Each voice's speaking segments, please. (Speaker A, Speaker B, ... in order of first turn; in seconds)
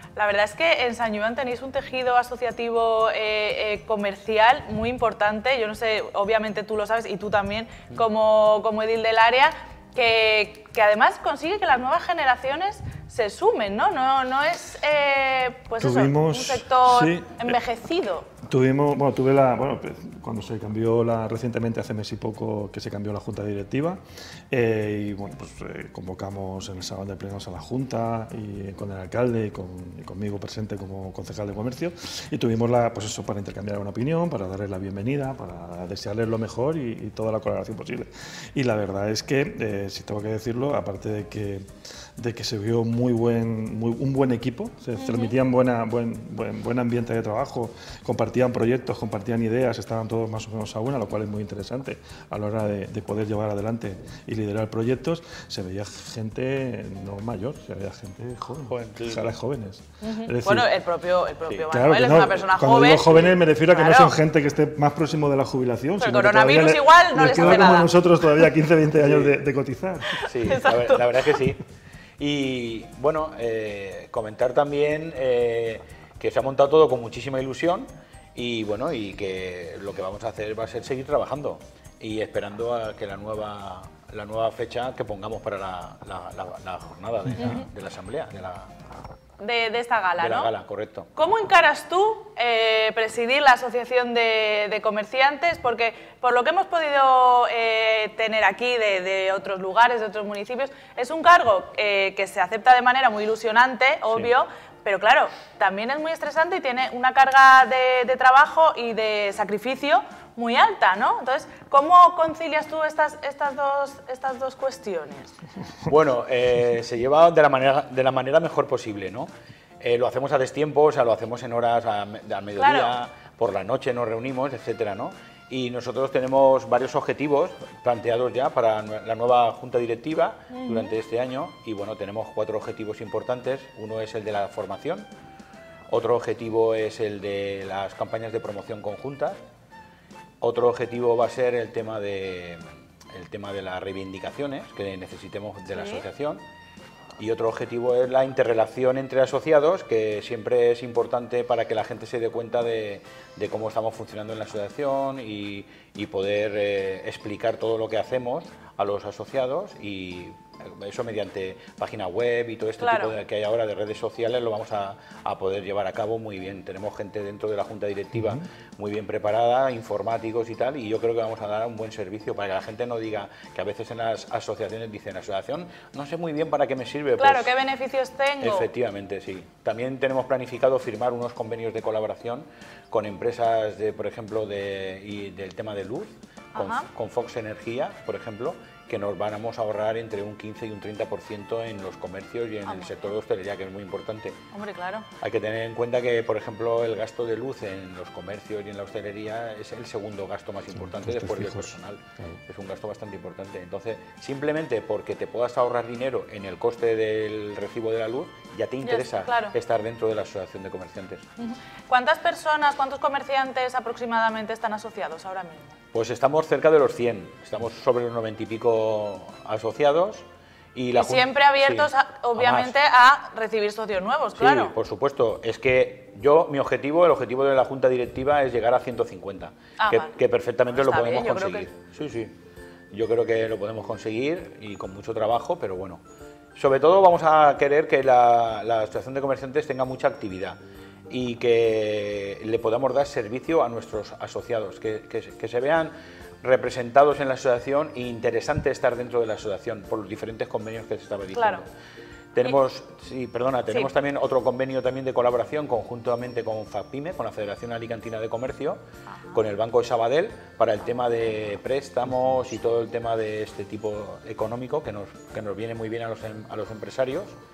Speaker A: 0.1-18.3, 45.0-45.3, 60.0-64.2, 66.0-68.0, 70.1-71.4, 89.4-90.5, 91.1-115.3, 122.5-122.9, 130.5-130.9, 145.7-146.0, 162.8-163.2, 177.2-178.7, 186.5-186.9, 192.7-193.1, 194.5-195.1, 208.8-209.5, 211.4-215.7, 220.9-224.7, 229.8-230.2, 230.7-231.7, 251.3-251.6, 259.1-259.4
Speaker B: 15.8-17.5, 18.4-24.0, 24.5-41.6, 42.2-60.7, 61.7-70.2, 200.7-202.4
Speaker C: 58.7-59.3, 69.0-69.3, 70.3-71.6, 72.2-88.7, 90.2-91.1, 115.8-119.3, 119.8-135.1, 135.9-139.4, 140.4-146.4, 147.2-177.5, 178.4-194.4, 195.2-211.2, 215.9-222.7, 224.4-232.3, 232.9-236.0, 236.6-240.6, 241.1-251.6, 252.3-258.8, 259.3-267.3